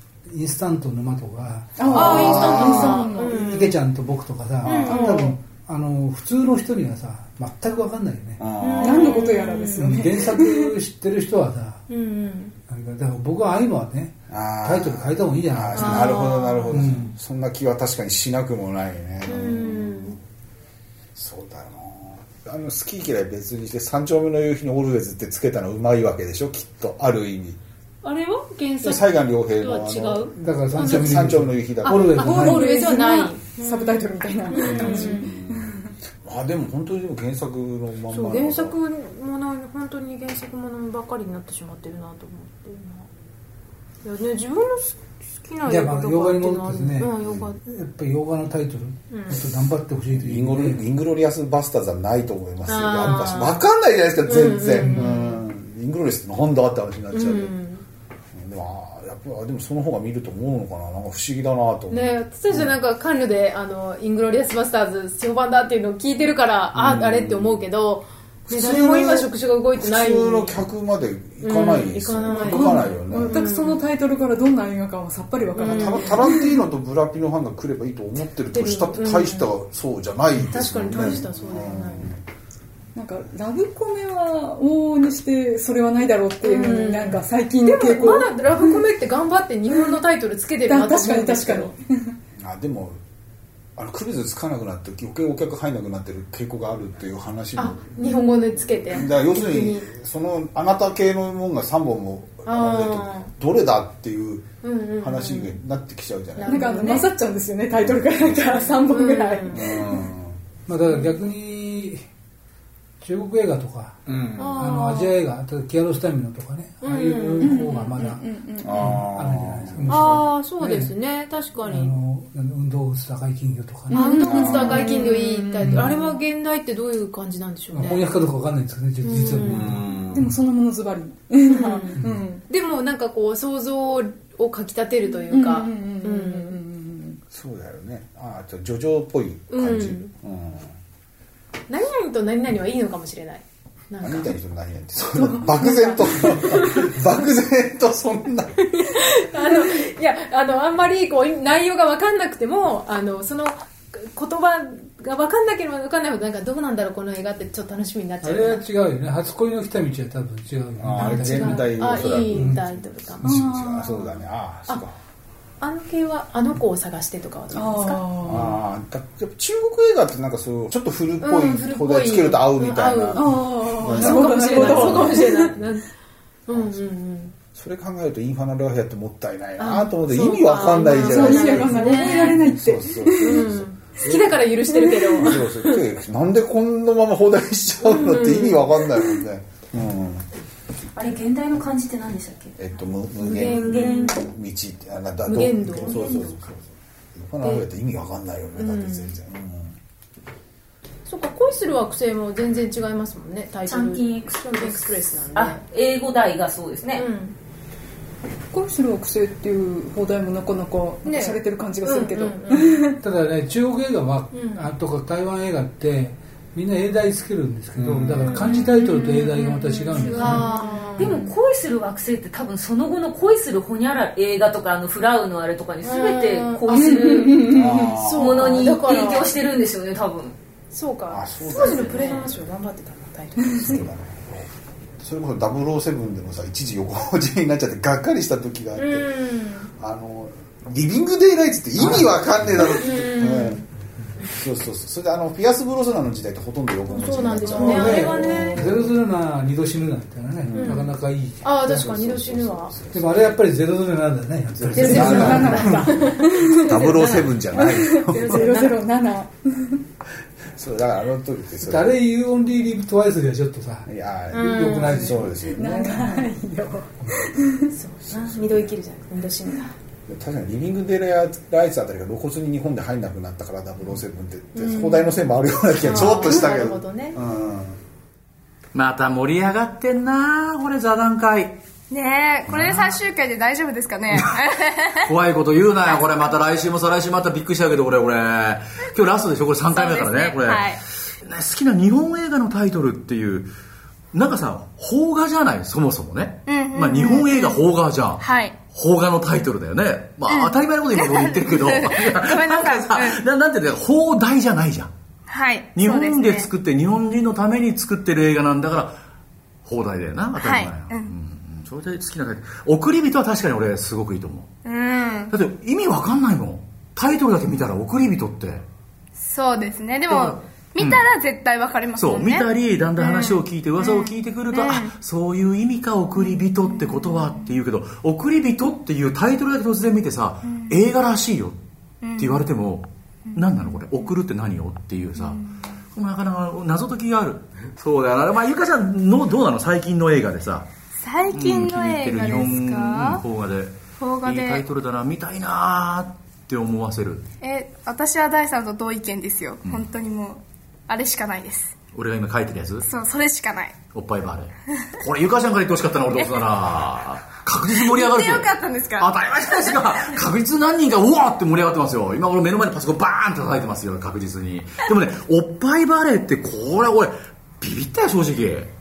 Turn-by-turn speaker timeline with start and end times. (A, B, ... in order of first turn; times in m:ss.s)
0:00.3-0:02.7 A
0:01.8-0:03.7 B
0:01.9-0:03.0 C
0:01.9-0:03.8 D
0:03.3-0:08.4 A
0:04.6-0:05.3 D
0:04.8-0:05.4 B
0:08.4-0:09.2 C
0:08.6-0:09.8 D
0:08.8-0:10.7 B
0:09.8-0:11.8 A
0:11.9-0:12.6 D
0:12.7-0:17.1 A
0:14.3-0:20.2 C
0:15.7-0:16.8 D
0:19.2-0:20.2 D
0:21.2-0:27.6 C
0:28.0-0:31.2 D
0:28.8-0:32.4 C
0:30.4-0:32.7 A
0:31.8-0:35.3 D
0:32.1-0:35.9 B
0:34.6-0:38.8 C
0:38.1-0:43.1 D
0:44.0-0:47.6 D
0:45.6-0:50.8 A
0:49.1-0:49.4 D
0:50.1-0:57.6 C
0:52.7-0:53.6 D
0:54.2-0:55.4 D
0:57.1-0:57.8 D
0:58.3-1:02.7 C
1:01.9-1:10.6 D
1:06.7-1:07.6 C
1:08.5-1:13.5 C
1:11.4-1:13.8 D
1:12.4-1:16.6 B
1:15.6-1:22.2 C
1:15.6-1:16.2 D
1:18.5-1:19.5 D
1:20.4-1:22.1 D
1:22.9-1:28.9 B
1:26.4-1:31.8 D
1:30.7-1:32.2 B
1:32.4-1:33.0 C
1:33.8-1:38.1 C
1:37.6-1:39.9 D
1:38.0-1:38.5 B
1:38.9-1:44.5 C
1:42.4-1:43.3 D
1:44.6-1:45.6 D
1:45.0-1:46.6 C
1:46.4-1:47.1 D
1:46.4-1:49.6 B
1:47.7-1:48.6 C
1:48.4-1:50.0 D
1:49.5-1:50.4 C
1:50.7-1:52.0 A
1:53.0-1:54.0 A
1:54.1-1:54.6 C
1:54.4-1:55.2 D
1:54.6-2:00.9 A
1:56.8-1:58.1 D
1:57.4-1:59.1 B
1:58.6-1:59.9 C
1:59.9-2:02.0 D
2:01.6-2:04.6 A
2:03.9-2:06.1 B
2:03.9-2:08.0 D
2:04.3-2:04.9 C
2:05.6-2:05.9 A
2:07.7-2:09.9 A
2:09.0-2:09.8 D
2:09.4-2:10.4 C
2:10.1-2:12.4 B
2:11.4-2:11.9 D
2:12.4-2:16.6 D
2:15.3-2:17.2 B
2:17.3-2:20.7 C
2:19.5-2:20.1 D
2:21.7-2:24.4 D
2:24.0-2:28.5 C
2:25.2-2:25.9 B
2:25.5-2:26.9 D
2:28.7-2:38.6 D
2:38.2-2:42.6 A
2:40.8-2:45.0 C
2:40.9-2:43.3 D
2:43.3-2:44.1 B
2:45.6-2:48.0 D
2:47.5-2:48.5 B
2:48.2-2:55.6 C
2:51.2-2:55.9 D
2:53.1-2:55.6 B
2:56.4-2:57.4 D
2:56.5-2:56.8 C
2:57.5-3:04.4 C
2:59.6-3:02.4 D
3:00.6-3:03.5 B
3:03.2-3:05.8 D
3:04.8-3:05.4 B
3:05.0-3:10.3 C
3:07.9-3:08.9 D
3:10.9-3:12.6 E
3:12.6-3:19.8 C
3:13.2-3:14.2 D
3:13.3-3:14.1 E
3:15.2-3:16.4 D
3:18.6-3:19.2 D
3:21.1-3:25.6 D
3:23.6-3:27.1 E
3:26.9-3:27.4 D
3:28.5-3:33.0 B
3:31.0-3:32.8 D
3:33.0-3:40.5 A
3:34.3-3:34.7 D
3:37.8-3:38.4 C
3:38.2-3:41.3 D
3:39.9-3:47.6 E
3:41.0-3:41.3 B
3:45.8-3:49.3 D
3:46.7-3:48.0 B
3:47.5-3:48.5 C
3:48.1-3:50.4 E
3:50.7-3:53.8 D
3:51.1-3:52.4 C
3:51.6-3:52.2 E
3:53.6-3:59.1 C
3:58.8-3:59.7 D
3:59.7-4:03.7 C
4:01.8-4:02.1 A
4:02.6-4:03.7 D
4:04.3-4:08.8 C
4:06.9-4:08.9 D
4:07.4-4:11.8 A
4:07.6-4:08.0 B
4:10.4-4:10.9 C
4:10.6-4:12.7 D
4:11.6-4:13.4 C
4:12.9-4:15.7 A
4:14.6-4:18.7 C
4:14.7-4:19.8 B
4:14.8-4:18.8 D
4:20.5-4:22.0 C
4:21.6-4:23.9 A
4:23.8-4:26.0 C
4:24.3-4:25.1 D
4:24.4-4:26.1 A
4:25.5-4:27.7 B
4:27.7-4:29.8 D
4:28.1-4:28.7 C
4:30.1-4:37.8 C
4:34.6-4:35.1 D
4:35.8-4:37.2 D
4:38.7-4:41.6 F
4:41.9-4:45.0 G
4:42.5-4:43.0 F
4:45.0-4:53.5 F
4:49.7-4:50.8 G
4:54.1-5:04.9 F
4:56.5-4:57.6 G
4:58.2-4:58.6 G
5:00.3-5:03.2 G
5:05.3-5:06.5 G
5:05.8-5:09.0 F
5:09.6-5:14.5 F
5:10.4-5:11.1 G
5:14.6-5:15.3 G
5:15.3-5:18.7 F
5:19.2-5:24.9 G
5:20.1-5:21.0 F
5:22.0-5:31.6 F
5:26.2-5:27.5 G
5:30.4-5:30.8 G
5:32.0-5:32.5 G
5:32.2-5:35.4 F
5:33.3-5:33.8 G
5:35.2-5:35.5 G
5:35.9-5:40.7 F
5:41.0-5:43.2 G
5:41.3-5:47.2 F
5:44.0-5:44.6 G
5:47.4-5:51.8 G
5:51.9-5:52.9 F
5:52.8-5:53.8 G
5:53.9-6:08.7 F
5:57.7-6:00.2 G